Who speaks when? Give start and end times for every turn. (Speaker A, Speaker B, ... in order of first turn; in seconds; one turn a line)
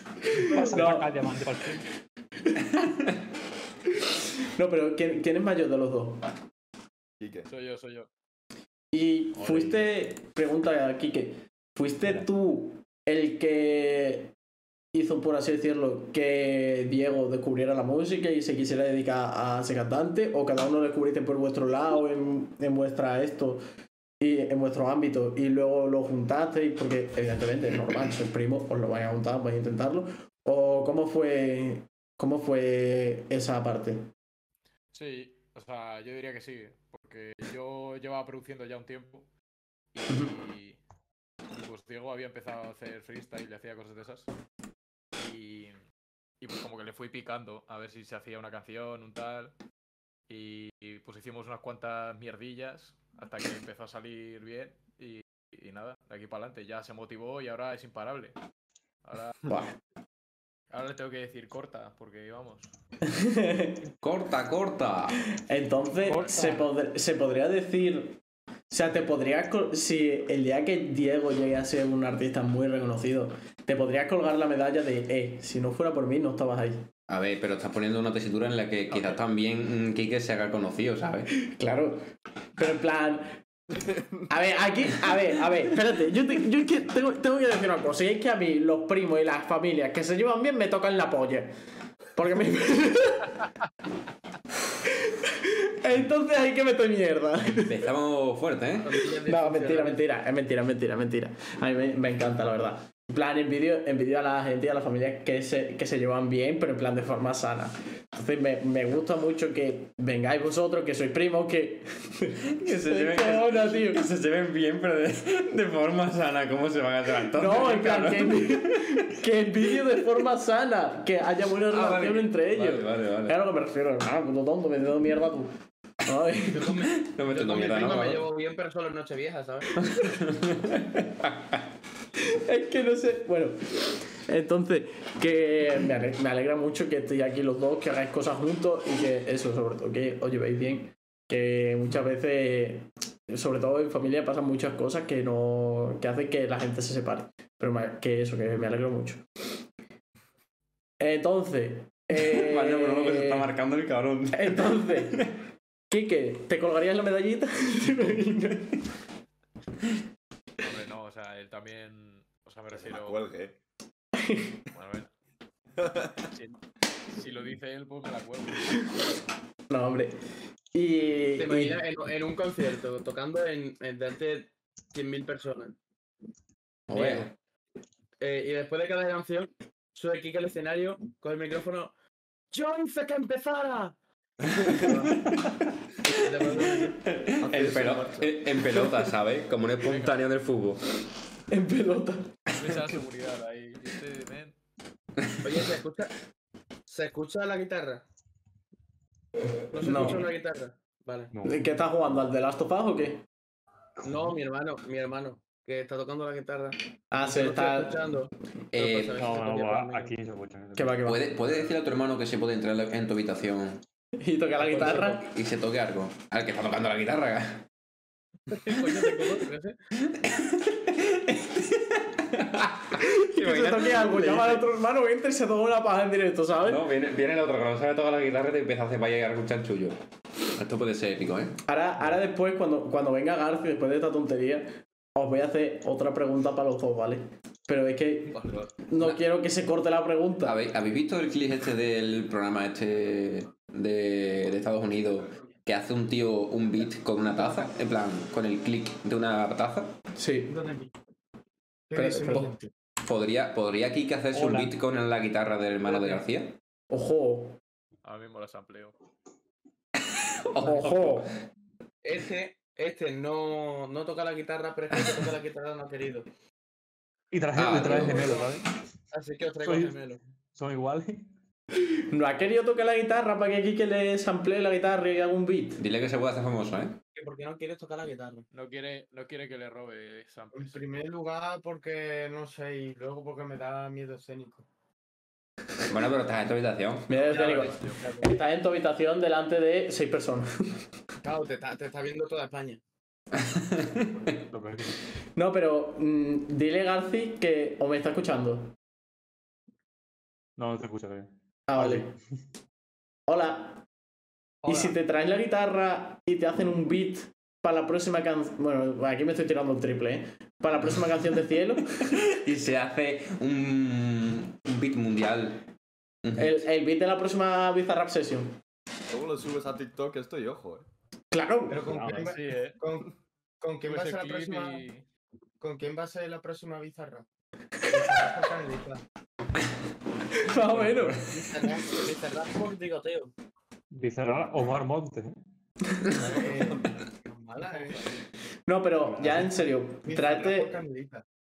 Speaker A: 0.2-1.9
Speaker B: 0.5-1.1
Speaker B: 4.5-6.3
Speaker C: 7.2-7.5
Speaker D: 7.5-8.1
Speaker B: 8.9-14.3
Speaker A: 9.4-9.7
Speaker B: 14.9-23.6
Speaker B: 24.2-34.1
Speaker D: 34.9-39.3
Speaker D: 39.9-40.8
Speaker D: 41.5-44.3
Speaker D: 45.2-45.8
Speaker D: 46.4-49.5
Speaker D: 50.3-58.4
Speaker D: 59.0-59.5
Speaker B: 59.5-59.7
Speaker D: 60.7-62.7
Speaker B: 63.1-63.8
Speaker E: 64.0-65.2
Speaker B: 65.5-68.2
Speaker D: 66.0-66.7
Speaker B: 68.7-76.8
Speaker E: 77.1-81.3
Speaker B: 81.3-82.0
Speaker B: 82.6-83.4
Speaker B: 84.3-91.5
Speaker B: 92.1-93.4
Speaker B: 95.0-97.8
Speaker E: 97.5-99.0
Speaker F: 98.8-100.0
Speaker B: 99.2-114.0
Speaker E: 112.5-118.9
Speaker B: 117.3-125.5
Speaker E: 121.6-123.4
Speaker B: 126.0-126.7
Speaker F: 126.4-129.7
Speaker E: 126.9-128.2
Speaker E: 129.8-131.6
Speaker B: 132.2-149.2
Speaker B: 151.0-153.5
Speaker E: 152.1-155.3
Speaker B: 154.3-155.2
Speaker B: 155.9-158.8
Speaker D: 160.6-163.2
Speaker C: 162.7-163.6
Speaker B: 164.2-164.6
Speaker D: 164.7-165.1
Speaker C: 165.8-166.1
Speaker D: 166.3-166.6
Speaker D: 167.1-168.8
Speaker B: 169.7-170.2
Speaker B: 170.7-171.8
Speaker F: 171.4-175.8
Speaker E: 176.9-177.3
Speaker F: 176.9-177.3
Speaker F: 178.2-181.9
Speaker F: 182.5-183.9
Speaker F: 184.5-185.1
Speaker F: 186.0-187.0
Speaker E: 186.4-190.8
Speaker C: 187.4-188.3
Speaker D: 189.8-190.2
Speaker B: 191.5-192.4
Speaker D: 192.5-194.6
Speaker F: 195.4-196.1
Speaker F: 196.8-198.0
Speaker F: 199.7-201.3
Speaker B: 199.8-200.2
Speaker A: 201.3-201.6
Speaker B: 201.4-203.2
Speaker F: 204.0-210.1
Speaker B: 207.1-207.9
Speaker E: 208.7-209.1
Speaker A: 209.2-211.0
Speaker B: 210.8-211.3
Speaker E: 211.0-213.8
Speaker B: 214.2-215.2
Speaker F: 214.6-215.2
Speaker E: 215.2-217.6
Speaker F: 218.5-219.8
Speaker E: 220.2-224.7
Speaker B: 223.0-226.8
Speaker E: 226.6-229.9
Speaker E: 230.5-231.6
Speaker B: 231.7-240.6
Speaker C: 238.3-238.7
Speaker E: 238.9-239.2
Speaker E: 240.4-249.9
Speaker G: 247.4-247.6
Speaker B: 250.2-250.5
Speaker G: 250.5-250.9
Speaker G: 251.9-252.7
Speaker B: 251.9-252.5
Speaker E: 253.0-256.6
Speaker A: 254.3-254.7
Speaker B: 256.9-257.6
Speaker D: 258.0-258.9
Speaker E: 260.1-261.2
Speaker B: 260.6-261.3
Speaker F: 262.0-266.3
Speaker A: 267.3-268.7
Speaker E: 267.5-268.3
Speaker F: 268.0-268.4
Speaker F: 269.1-270.2
Speaker A: 269.6-269.9
Speaker A: 270.5-271.3
Speaker B: 272.1-275.8
Speaker E: 275.8-277.0
Speaker F: 277.1-278.4
Speaker D: 278.5-281.0
Speaker G: 280.5-284.6
Speaker E: 285.9-287.1
Speaker B: 287.1-290.5
Speaker D: 287.1-288.0
Speaker F: 287.3-288.3
Speaker F: 291.2-292.8
Speaker E: 293.4-294.0
Speaker A: 294.3-295.0
Speaker B: 295.4-298.7
Speaker A: 300.6-302.1
Speaker B: 301.7-302.1
Speaker B: 303.3-303.8
Speaker F: 304.6-304.9
Speaker B: 304.6-312.2
Speaker E: 312.1-315.6
Speaker E: 316.2-316.6
Speaker B: 316.4-318.6
Speaker C: 319.1-320.9
Speaker B: 321.3-321.8
Speaker G: 321.7-324.8
Speaker A: 321.8-322.3
Speaker D: 322.1-322.8
Speaker D: 323.9-325.0
Speaker G: 325.6-327.2
Speaker G: 327.9-329.0
Speaker B: 330.4-331.4
Speaker A: 330.7-331.2
Speaker F: 331.3-333.3
Speaker A: 333.9-335.3
Speaker G: 336.2-338.0
Speaker B: 338.6-340.8
Speaker G: 340.0-341.2